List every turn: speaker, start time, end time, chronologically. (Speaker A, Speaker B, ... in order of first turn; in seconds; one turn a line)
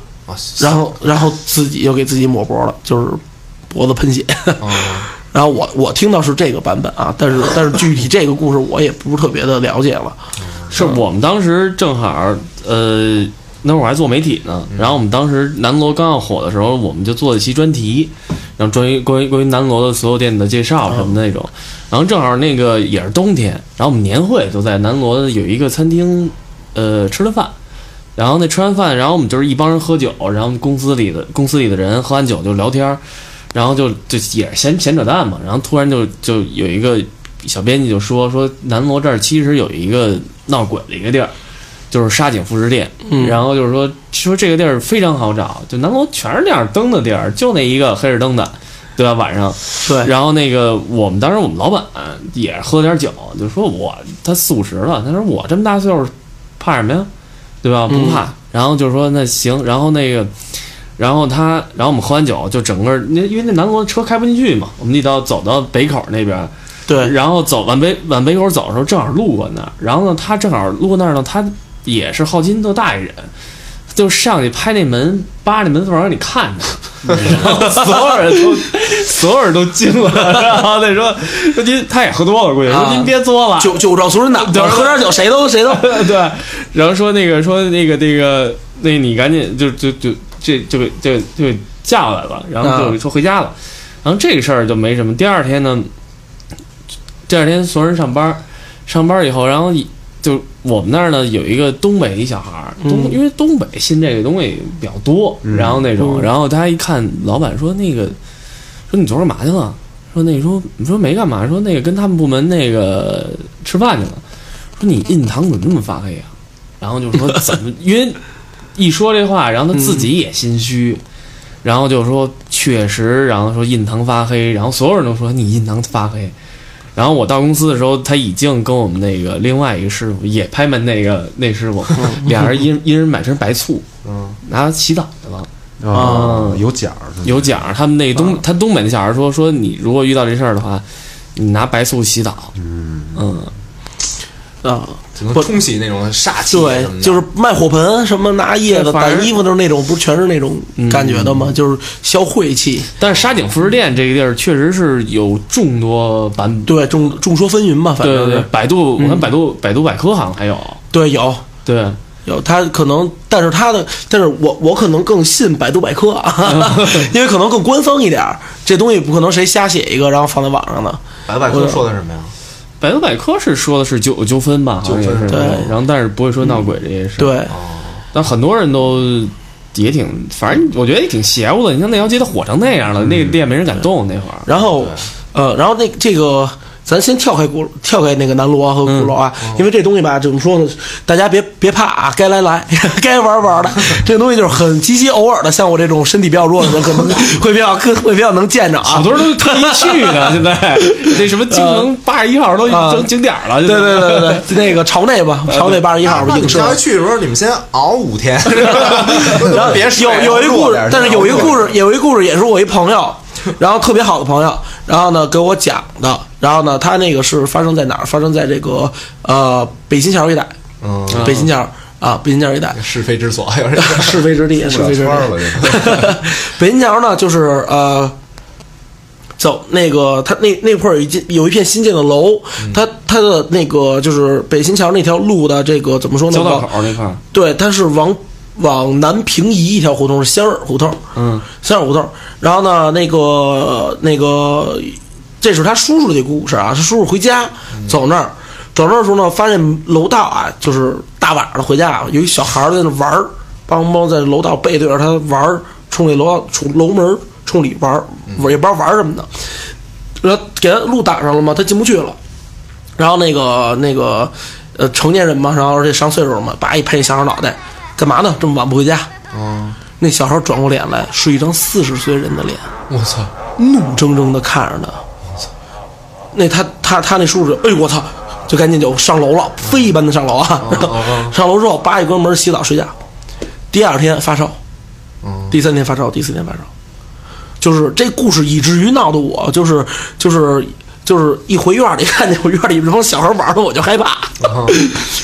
Speaker A: 0.3-0.9
Speaker B: 0.6-10.2
Speaker A: 4.6-5.1
Speaker A: 10.4-10.9
Speaker C: 10.7-27.5
Speaker A: 14.7-15.0
Speaker B: 20.9-21.1
Speaker C: 28.1-33.0
Speaker C: 33.5-41.3
Speaker C: 41.9-57.1
Speaker B: 43.1-43.4
Speaker B: 49.8-50.1
Speaker C: 57.6-60.3
Speaker B: 57.9-58.2
Speaker C: 61.0-73.3
Speaker B: 66.9-67.1
Speaker C: 73.9-95.9
Speaker A: 77.1-77.4
Speaker B: 77.2-78.5
Speaker B: 82.7-86.0
Speaker B: 92.6-93.0
Speaker C: 97.3-108.2
Speaker B: 102.8-103.2
Speaker D: 105.4-105.9
Speaker B: 106.0-106.3
Speaker C: 108.9-114.2
Speaker C: 114.8-116.3
Speaker C: 116.8-118.2
Speaker C: 118.7-121.0
Speaker B: 119.7-120.1
Speaker C: 121.6-126.3
Speaker C: 127.0-133.8
Speaker A: 134.0-134.4
Speaker C: 134.4-136.6
Speaker D: 135.8-137.7
Speaker B: 135.9-136.3
Speaker C: 137.2-140.8
Speaker C: 141.3-142.6
Speaker D: 142.6-143.2
Speaker C: 143.1-143.5
Speaker B: 144.6-145.5
Speaker A: 145.2-147.2
Speaker B: 146.5-152.9
Speaker C: 148.7-149.3
Speaker C: 150.8-151.5
Speaker C: 153.0-156.8
Speaker A: 153.0-153.4
Speaker B: 156.7-159.3
Speaker C: 158.0-160.8
Speaker B: 160.9-161.4
Speaker C: 161.7-162.0
Speaker B: 162.2-171.8
Speaker C: 166.5-167.1
Speaker A: 171.3-172.3
Speaker C: 172.8-177.4
Speaker A: 174.8-175.6
Speaker B: 175.3-175.7
Speaker B: 177.2-177.5
Speaker A: 177.5-178.0
Speaker C: 178.1-184.5
Speaker B: 184.4-201.9
Speaker A: 184.6-185.1
Speaker C: 188.8-189.1
Speaker C: 198.8-204.5
Speaker B: 202.7-203.1
Speaker B: 203.6-206.8
Speaker C: 205.5-205.8
Speaker A: 206.0-211.7
Speaker B: 208.6-220.5
Speaker D: 210.4-211.6
Speaker A: 220.8-221.4
Speaker C: 221.1-221.5
Speaker B: 221.2-222.8
Speaker A: 222.7-224.2
Speaker B: 223.8-228.1
Speaker D: 224.6-225.9
Speaker B: 229.4-236.7
Speaker C: 236.3-237.2
Speaker B: 237.3-241.0
Speaker C: 241.1-241.4
Speaker B: 241.5-259.5
Speaker A: 247.7-248.0
Speaker B: 260.2-262.2
Speaker B: 263.0-269.1
Speaker A: 269.3-269.8
Speaker B: 270.0-272.7
Speaker A: 272.9-273.3
Speaker B: 273.6-275.0
Speaker B: 276.3-282.9
Speaker A: 280.6-281.3
Speaker B: 283.7-284.6
Speaker A: 285.2-285.6
Speaker B: 285.5-286.7
Speaker B: 287.6-295.1
Speaker A: 294.4-294.8